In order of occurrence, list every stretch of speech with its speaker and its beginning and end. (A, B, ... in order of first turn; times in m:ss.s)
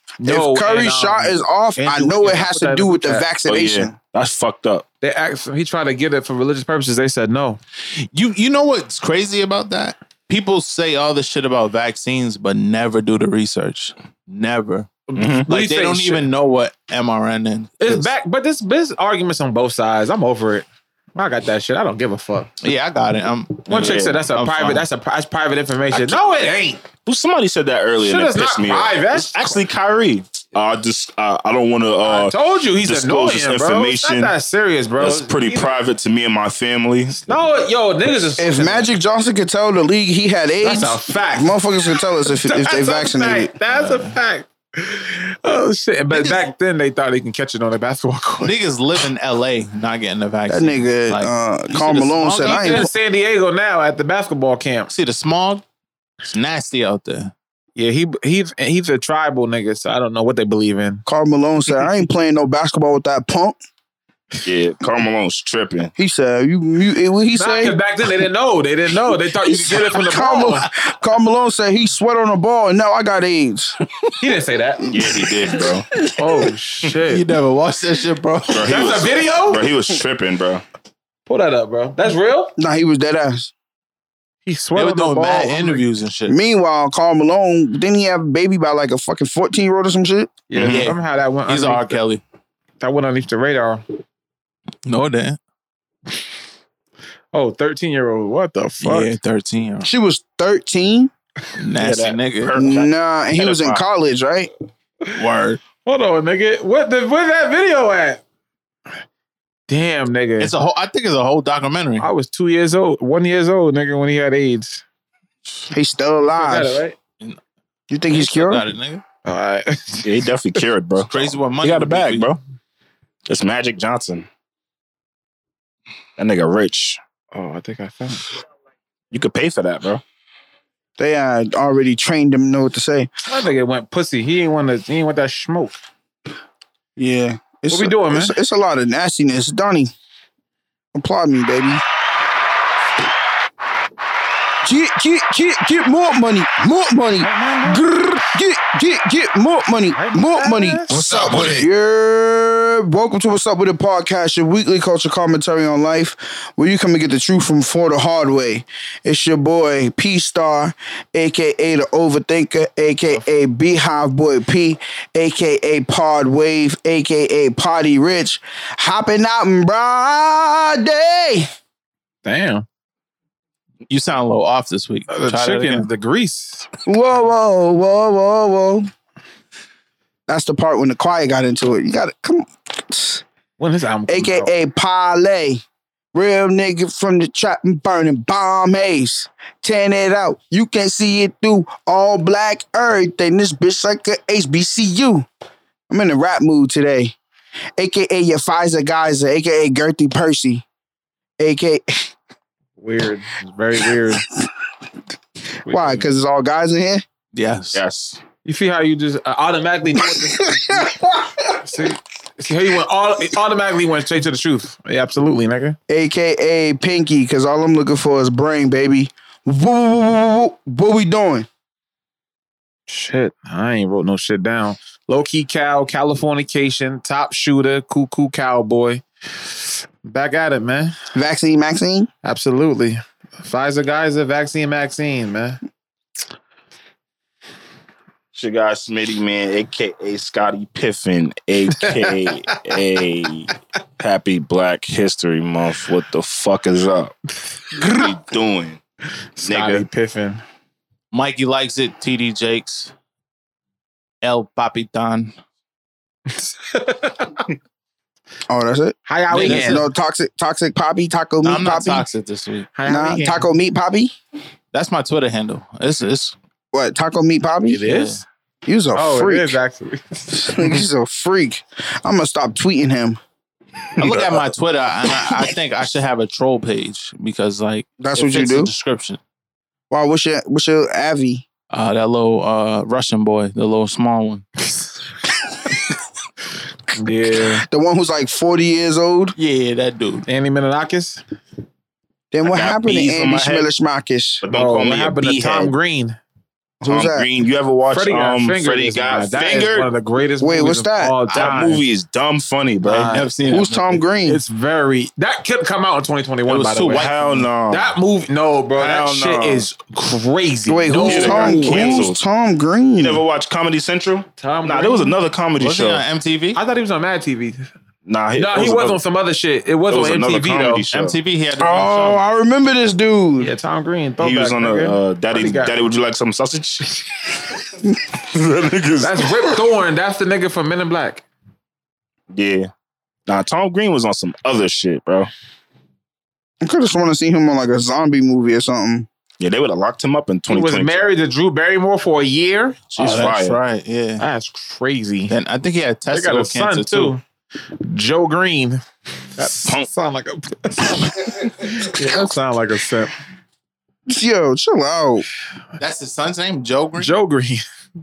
0:00.2-0:03.2 A
0:00.2-0:03.9 B
0:03.5-0:04.8 C
0:05.0-0:07.6 A
0:07.8-0:14.9 D
0:15.1-0:16.2 A
0:15.2-0:15.5 C
0:15.5-0:18.1 D
0:17.8-0:22.5 A
0:22.6-0:24.8 D
0:23.7-0:24.2 C
0:23.7-0:26.8 A
0:25.9-0:26.2 D
0:27.0-0:34.3 C
0:28.0-0:29.6 A
0:32.0-0:35.7 A
0:35.0-0:37.2 C
0:37.2-0:38.9 A
0:38.4-0:43.5 B
0:40.6-0:48.5 A
0:43.7-0:44.2 D
0:46.1-0:46.5 D
0:48.4-0:52.9 D
0:50.5-0:52.9 B
0:52.5-0:54.9 A
0:54.9-0:55.6 D
0:56.2-0:57.3 D
0:57.8-1:01.0 A
1:01.0-1:03.6 B
1:04.4-1:05.9 C
1:06.0-1:07.8 B
1:07.3-1:10.6 A
1:09.4-1:13.8 B
1:14.2-1:14.9 A
1:14.8-1:16.1 B
1:14.9-1:15.8 C
1:16.2-1:17.2 A
1:17.0-1:18.8 D
1:18.5-1:20.6 C
1:18.6-1:19.6 A
1:21.3-1:22.5 A
1:22.6-1:23.5 B
1:24.4-1:25.8 A
1:24.7-1:26.3 D
1:26.3-1:30.3 B
1:30.5-1:32.0 A
1:30.5-1:30.9 C
1:30.6-1:32.2 D
1:32.8-1:33.8 A
1:34.8-1:35.4 D
1:37.3-1:39.1 A
1:38.8-1:39.9 D
1:39.8-1:41.1 B
1:41.6-1:42.5 D
1:41.8-1:43.8 C
1:42.5-1:44.5 B
1:45.2-1:45.6 D
1:45.8-1:48.2 A
1:49.7-1:50.5 A
1:50.4-1:52.1 D
1:52.0-1:54.8 A
1:55.7-1:56.8 B
1:56.3-1:57.0 A
1:57.9-1:58.6 B
1:58.1-1:59.0 D
1:59.2-2:00.1 A
2:00.0-2:02.4 C
2:01.0-2:02.3 D
2:03.3-2:04.3 C
2:06.2-2:07.0 C
2:07.3-2:08.2 A
2:09.1-2:10.0 C
2:11.0-2:13.1 B
2:13.2-2:15.8 A
2:17.0-2:19.9 B
2:17.7-2:18.3 A
2:20.9-2:21.8 B
2:24.6-2:51.5 B
2:27.2-2:27.9 A
2:29.9-2:31.5 A
2:30.9-2:31.6 C
2:52.2-2:52.6 A
2:53.9-2:55.9 D
2:55.1-2:56.7 A
2:56.8-2:58.9 B
3:00.3-3:03.2 B
3:03.6-3:04.5 A
3:04.1-3:05.6 B
3:06.1-3:15.3 B
3:15.9-3:17.2 B
3:17.8-3:20.6 B
3:21.4-3:22.1 B
3:22.8-3:24.3 A
3:25.6-3:26.1 A
3:25.7-3:27.0 B
3:27.3-3:27.8 D
3:27.7-3:28.2 C
3:28.4-3:30.6 A
3:30.1-3:31.5 B
3:31.6-3:35.8 A
3:35.9-3:41.5 B
3:42.9-3:49.0 A
3:50.0-3:51.0 A
3:51.1-3:52.1 B
3:52.2-3:55.6 A
3:58.3-4:07.1 C
4:01.7-4:02.1 A
4:07.7-4:08.1 A
4:07.7-4:08.8 C
4:09.4-4:10.4 A
4:09.4-4:09.8 C
4:11.1-4:12.9 D
4:14.2-4:15.4 D
4:16.4-4:17.4 A
4:18.5-4:22.1 B
4:19.0-4:19.8 A
4:19.3-4:19.8 D
4:21.4-4:22.7 D
4:22.7-4:23.5 A
4:22.8-4:24.1 B
4:24.7-4:26.4 D
4:26.7-4:27.8 B
4:27.7-4:28.2 A
4:27.8-4:28.2 D
4:28.6-4:29.6 B
4:28.9-4:30.7 A
4:30.3-4:33.2 B
4:34.0-4:39.2 D
4:38.0-4:38.7 B
4:39.9-4:41.4 B
4:41.7-4:44.4 D
4:46.9-4:47.6 A
4:47.6-4:49.4 B
4:49.4-4:50.2 D
4:50.2-4:51.2 A
4:52.3-4:54.4 B
4:52.4-4:53.7 C
4:54.4-4:55.7 C
4:54.5-4:56.2 A
4:56.8-4:57.3 B
4:56.9-4:59.9 C
4:57.9-5:01.8 A
5:00.4-5:01.2 B
5:01.3-5:01.6 D
5:01.3-5:03.1 C
5:02.8-5:03.3 A
5:03.0-5:04.0 D
5:03.4-5:04.4 B
5:04.2-5:07.1 A
5:06.4-5:07.5 D
5:06.9-5:07.9 C
5:07.7-5:12.0 A
5:08.8-5:09.7 C
5:10.7-5:13.2 B
5:11.0-5:12.2 C
5:13.0-5:16.0 C
5:14.4-5:15.1 A
5:15.6-5:16.6 D
5:16.5-5:17.6 A
5:18.0-5:19.0 C
5:18.4-5:20.8 A
5:19.9-5:21.2 C
5:20.9-5:22.2 D
5:21.6-5:23.5 B
5:23.4-5:25.7 A
5:24.2-5:27.5 C
5:28.2-5:29.6 C
5:29.0-5:31.2 A
5:32.3-5:32.7 C
5:33.3-5:35.3 C
5:36.6-5:39.1 B
5:39.4-5:41.1 C
5:40.5-5:42.8 A
5:42.9-5:44.2 D
5:43.0-5:43.6 C
5:44.2-5:45.3 A
5:45.3-5:47.2 D
5:46.1-5:47.2 A
5:47.8-5:48.8 A
5:49.4-5:53.1 A
5:49.4-5:49.9 C
5:54.1-5:55.2 B
5:55.8-5:57.1 D
5:57.0-5:57.6 A